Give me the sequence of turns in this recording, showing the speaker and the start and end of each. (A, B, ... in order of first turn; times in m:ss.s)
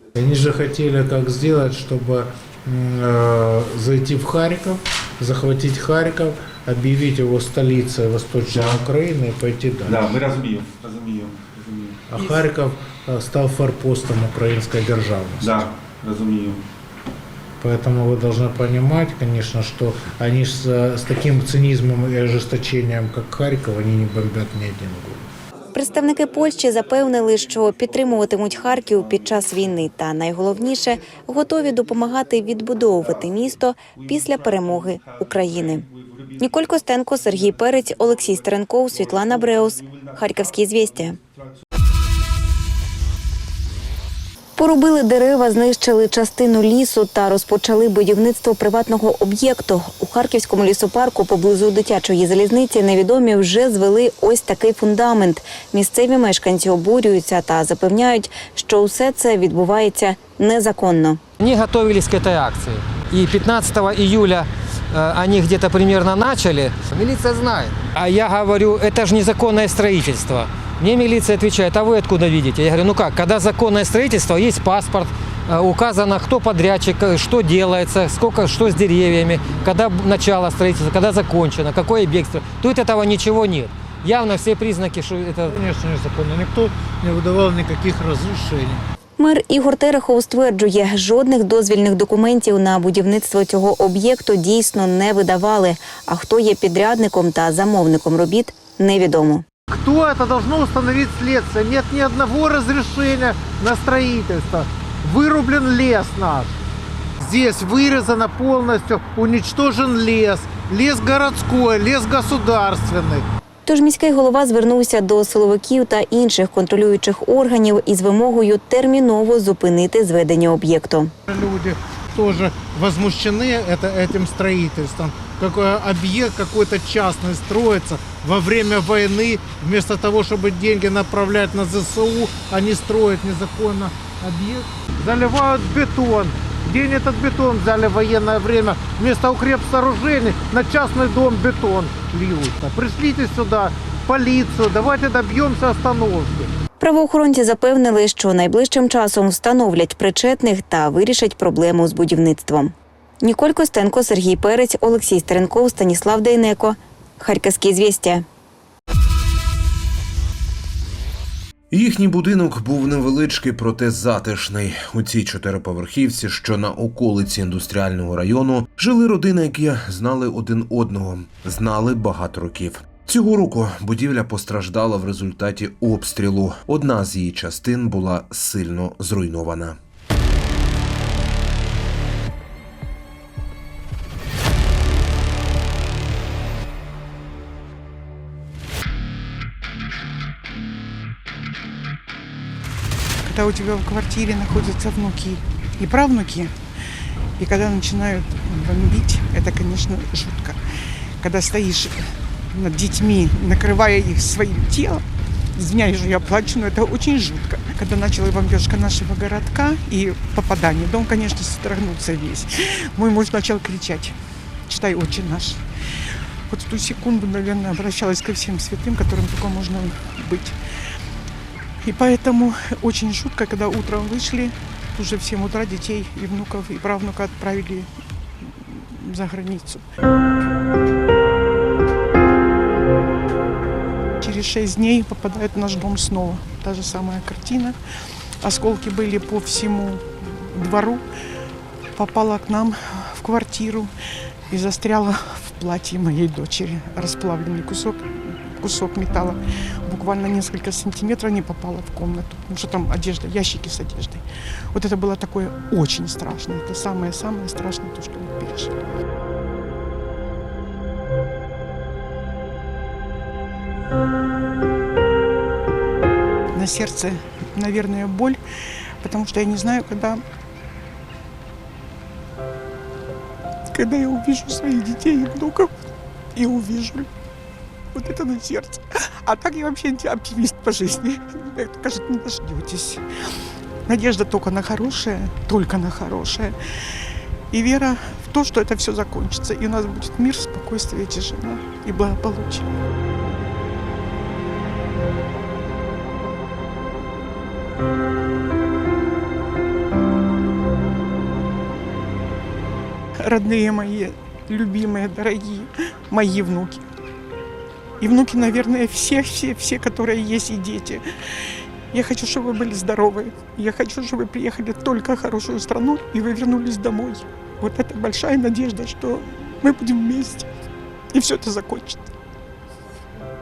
0:00.2-0:10.2 A
0:09.8-0:12.0 B
0:12.1-0:15.7 A
0:15.4-0:16.6 B
0:17.6-0:25.3 A
0:25.7-0:41.2 C
0:44.6-1:01.2 C
1:01.4-1:25.6 D
1:25.5-1:28.8 A
1:29.2-1:39.4 C
1:39.7-1:46.5 A
1:47.2-1:53.2 A
1:53.7-2:01.1 C
2:01.3-2:26.5 A
2:26.8-2:38.2 C
2:41.7-2:59.8 E
3:13.2-3:16.6 F
3:17.4-3:20.6 F
3:21.2-3:25.0 F
3:25.6-3:34.2 F
3:34.7-3:35.6 F
3:36.5-3:40.6 F
3:41.8-3:47.9 F
3:48.4-3:49.8 F
3:54.2-3:57.8 F
3:58.4-4:01.0 F
4:02.0-4:03.9 F
4:04.5-4:18.7 F
4:26.5-4:28.4 F
4:29.0-4:30.2 F
4:33.7-4:35.7 F
4:36.4-4:37.1 F
4:37.9-4:43.0 F
4:43.9-4:46.6 F
4:47.5-4:52.7 F
5:03.2-5:06.9 F
5:08.0-5:11.0 F
5:11.9-5:20.5 F
5:21.1-5:22.1 F